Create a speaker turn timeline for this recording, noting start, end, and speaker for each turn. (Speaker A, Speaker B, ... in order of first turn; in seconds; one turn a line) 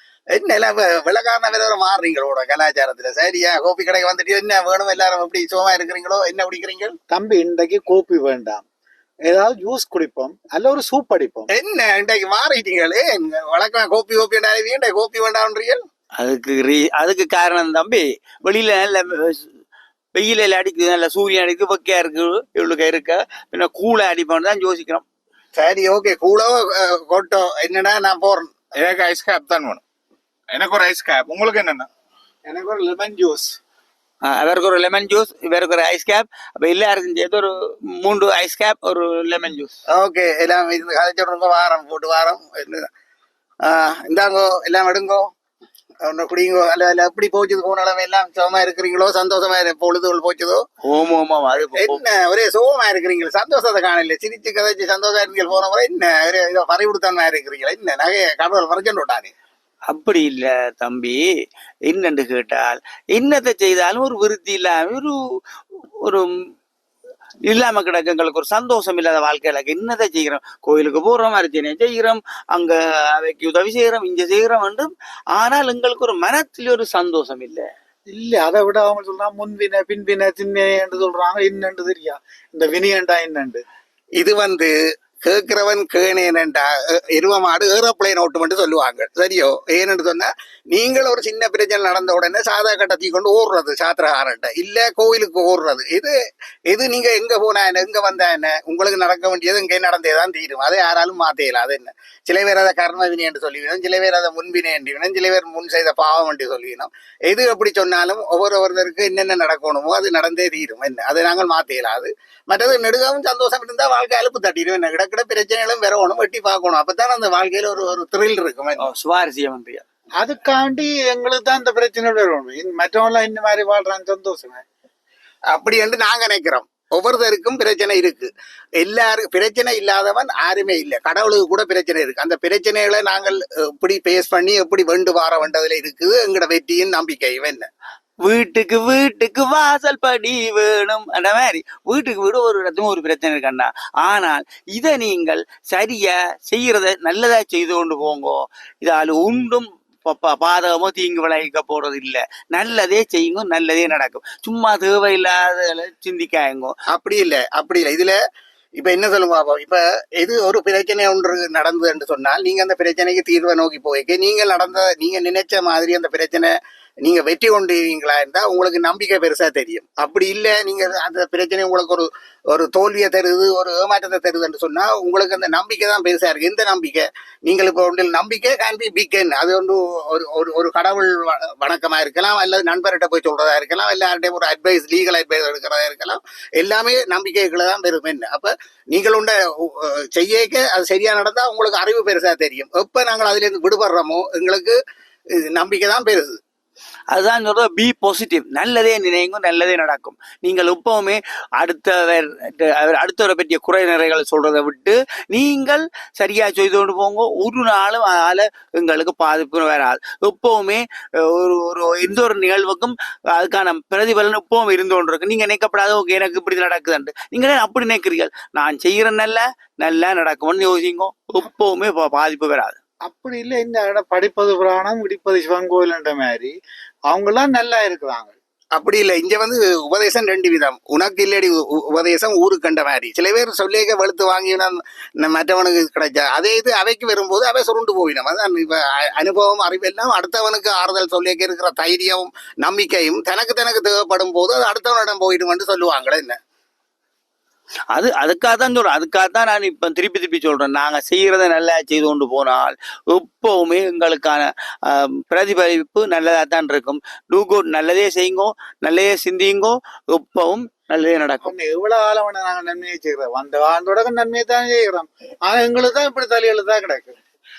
Speaker A: 0.3-7.0
Speaker B: 7.1-8.6
Speaker B: 9.3-11.5
Speaker A: 11.5-15.8
Speaker C: 16.2-19.4
Speaker C: 20.1-25.0
Speaker A: 25.6-28.5
Speaker D: 28.7-29.8
Speaker D: 30.5-31.9
Speaker B: 32.5-33.6
Speaker C: 34.2-39.7
Speaker A: 39.9-42.9
Speaker A: 43.6-45.3
Speaker A: 46.0-50.6
Speaker C: 50.9-52.0
Speaker A: 51.6-59.3
Speaker C: 59.9-61.2
Speaker C: 61.9-65.2
Speaker C: 67.5-77.7
Speaker B: 78.1-83.6
Speaker A: 84.2-84.7
Speaker A: 85.2-96.1
Speaker A: 96.7-118.9
Speaker C: 118.8-119.8
Speaker B: 120.2-124.6
Speaker A: 125.5-128.3
Speaker A: 128.8-137.7
Speaker C: 138.2-156.7
Speaker A: 156.9-158.2
Speaker A: 158.8-166.5
Speaker A: 167.0-194.8
Speaker A: 195.4-196.4
Speaker C: 197.1-222.8
Speaker B: 223.0-226.5
Speaker B: 227.1-228.3
Speaker A: 228.8-246.4
Speaker C: 247.9-261.5
Speaker B: 261.4-267.1